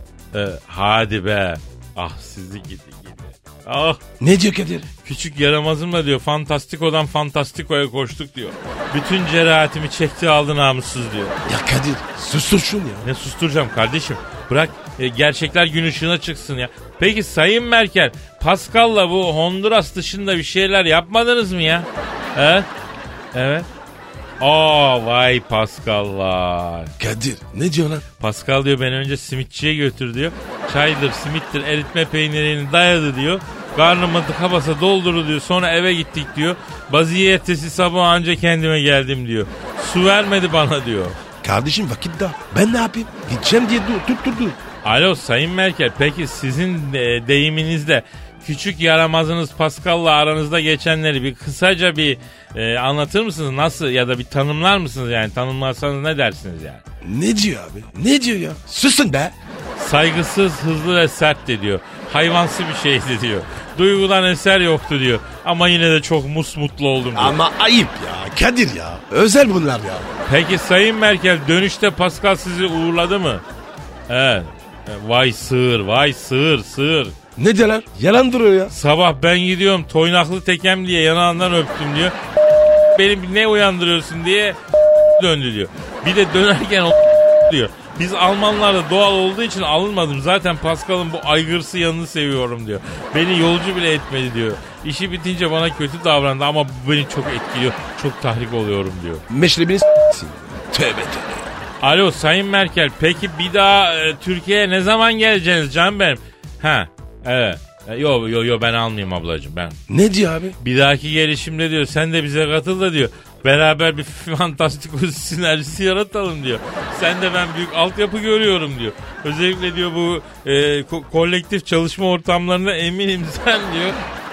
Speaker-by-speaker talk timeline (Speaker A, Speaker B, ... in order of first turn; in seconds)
Speaker A: 0.3-4.0, 5.0-11.3, 13.0-22.7, 23.3-23.7, 24.4-26.9, 28.2-41.2, 44.8-56.8, 59.8-67.4, 70.3-73.4, 74.1-77.1, 78.7-82.2, 82.9-84.6, 85.2-99.2, 101.8-109.8, 110.6-124.0
Speaker B: 4.2-4.9, 11.4-13.1, 27.0-28.0, 41.4-44.6, 57.0-59.3, 67.2-70.1, 77.4-78.7, 99.3-101.6, 109.9-110.5